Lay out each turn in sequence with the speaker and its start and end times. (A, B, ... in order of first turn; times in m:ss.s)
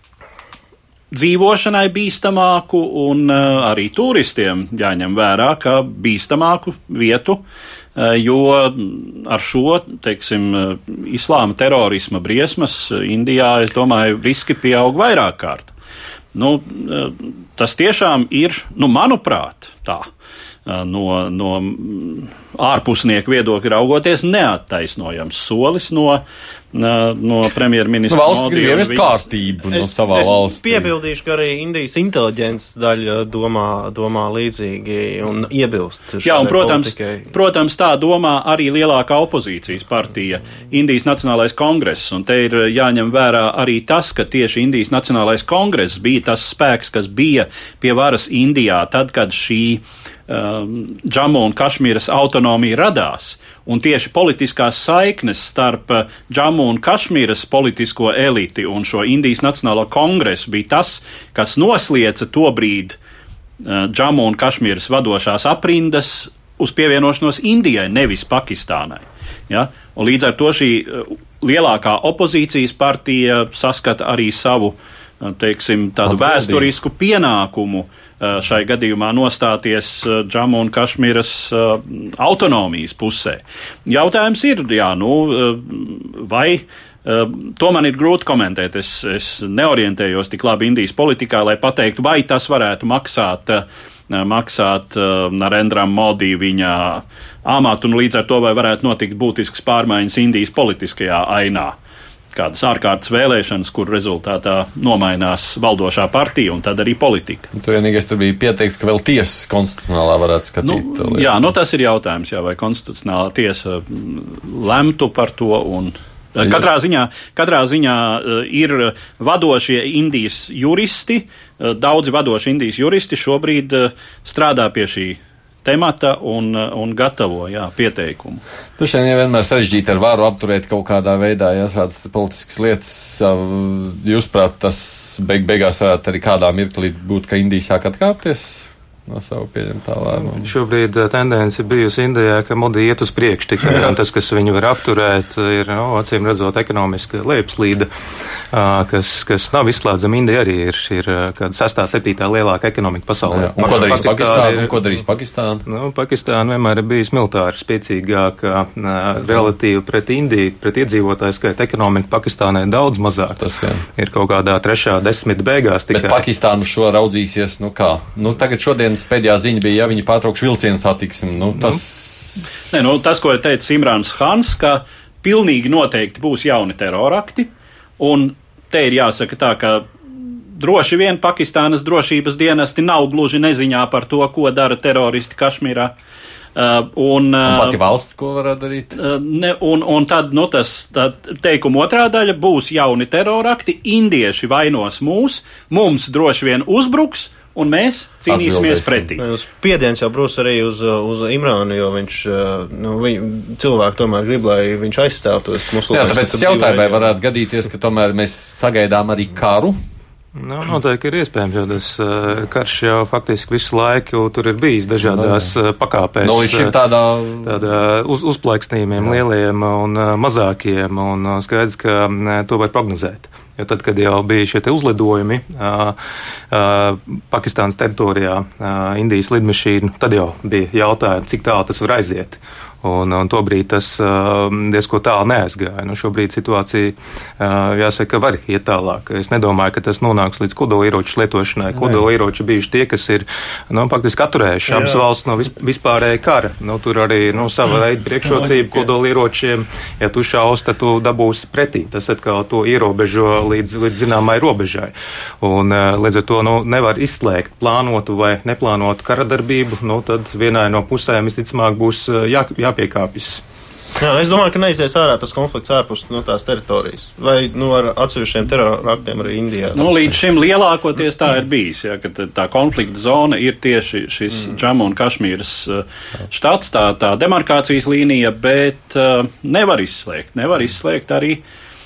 0:01.1-0:07.4 A
0:08.0-0:15.7 A
0:16.3-0:20.1 A
0:20.6-0:29.2 A
0:28.1-0:30.9 B
0:29.7-0:37.3 C
0:36.2-1:03.0 A
1:03.6-1:41.7 A
1:16.0-1:16.7 B
1:42.3-1:47.5 A
1:47.5-1:51.3 B
1:50.6-2:08.4 A
2:08.8-2:20.4 B
2:20.2-2:27.9 D
2:28.5-2:35.0 D
2:33.3-2:35.6 B
2:35.6-2:46.2 D
2:43.4-2:43.8 B
2:45.9-2:52.5 B
2:52.7-3:05.9 A
3:06.6-3:07.8 A
3:07.4-3:09.0 B
3:09.0-3:19.2 A
3:18.3-3:19.1 B
3:19.2-3:27.1 C
3:25.9-3:29.8 B
3:30.4-3:36.7 D
3:35.0-3:35.5 B
3:36.2-3:37.6 B
3:37.4-3:46.0 D
3:46.5-4:23.4 D
4:04.7-4:05.0 C
4:24.0-4:29.9 C
4:29.7-4:41.4 A